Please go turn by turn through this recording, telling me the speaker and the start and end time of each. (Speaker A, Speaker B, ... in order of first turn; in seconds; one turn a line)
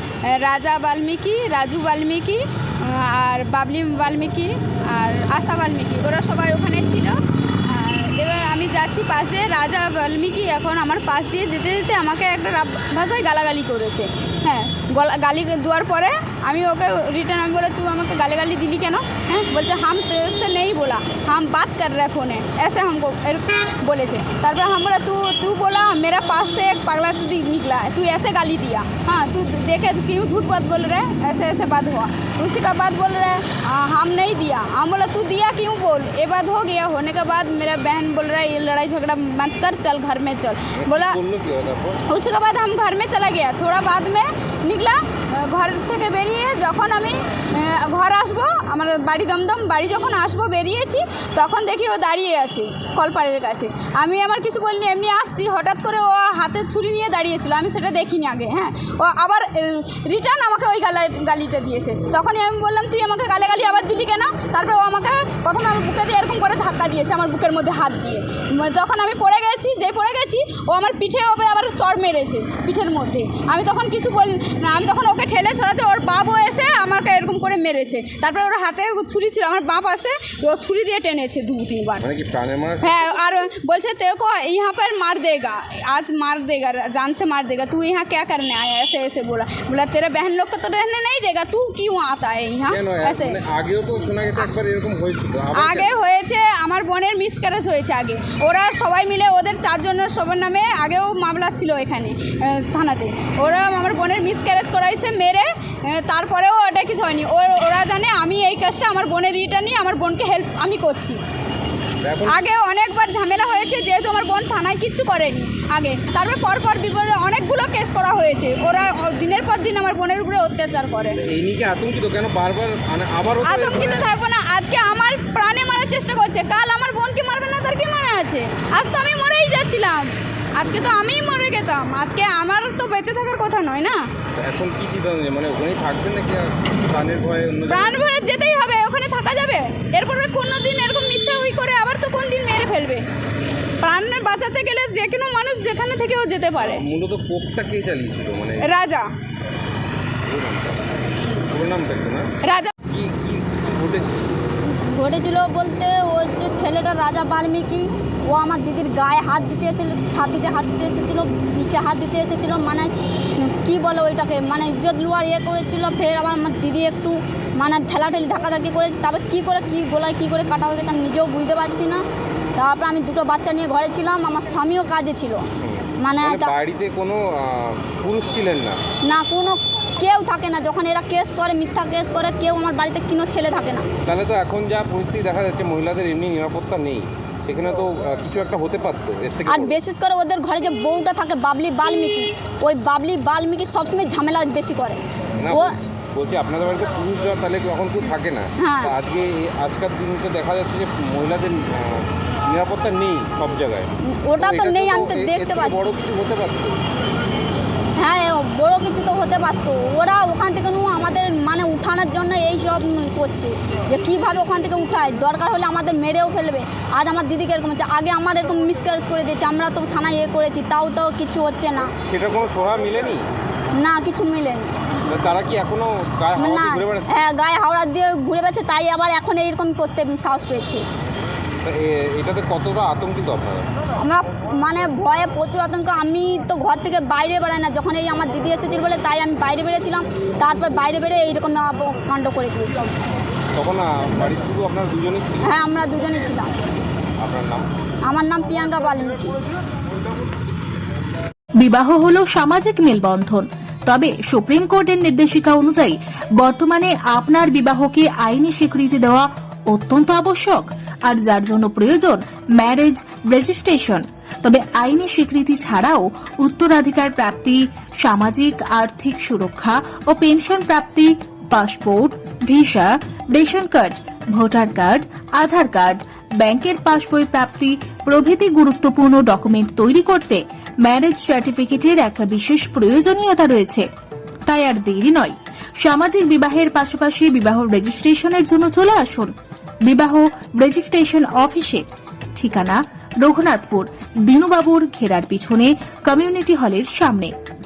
Speaker A: 0.2-41.2
Speaker B: 40.8-42.0
Speaker A: 42.1-82.1
Speaker B: 82.0-83.4
Speaker A: 82.8-93.4
Speaker B: 92.7-95.9
Speaker A: 95.5-111.2
Speaker B: 112.0-112.4
Speaker A: 112.2-121.2
Speaker B: 121.2-124.0
Speaker A: 123.4-134.1
Speaker B: 134.3-138.0
Speaker A: 137.7-143.0
Speaker A: 143.8-146.8
Speaker B: 146.6-148.7
Speaker A: 148.6-149.1
Speaker B: 150.2-150.8
Speaker B: 151.4-152.3
Speaker A: 152.4-152.7
Speaker B: 152.9-154.4
Speaker C: 154.8-172.0
Speaker C: 172.6-175.4
Speaker B: 175.6-178.8
Speaker C: 176.0-176.5
Speaker C: 179.1-183.9
Speaker B: 184.0-189.8
Speaker C: 189.5-195.7
Speaker B: 195.4-206.8
Speaker C: 198.6-198.9
Speaker C: 204.2-205.9
Speaker C: 208.0-221.9
Speaker B: 221.9-223.2
Speaker C: 223.8-224.8
Speaker B: 225.1-227.1
Speaker C: 226.3-230.8
Speaker B: 231.6-233.7
Speaker C: 234.0-242.9
Speaker B: 243.6-245.6
Speaker C: 245.4-246.5
Speaker B: 247.2-247.7
Speaker C: 248.0-249.4
Speaker D: 251.6-283.9
Speaker D: 284.5-289.3
Speaker D: 289.8-297.3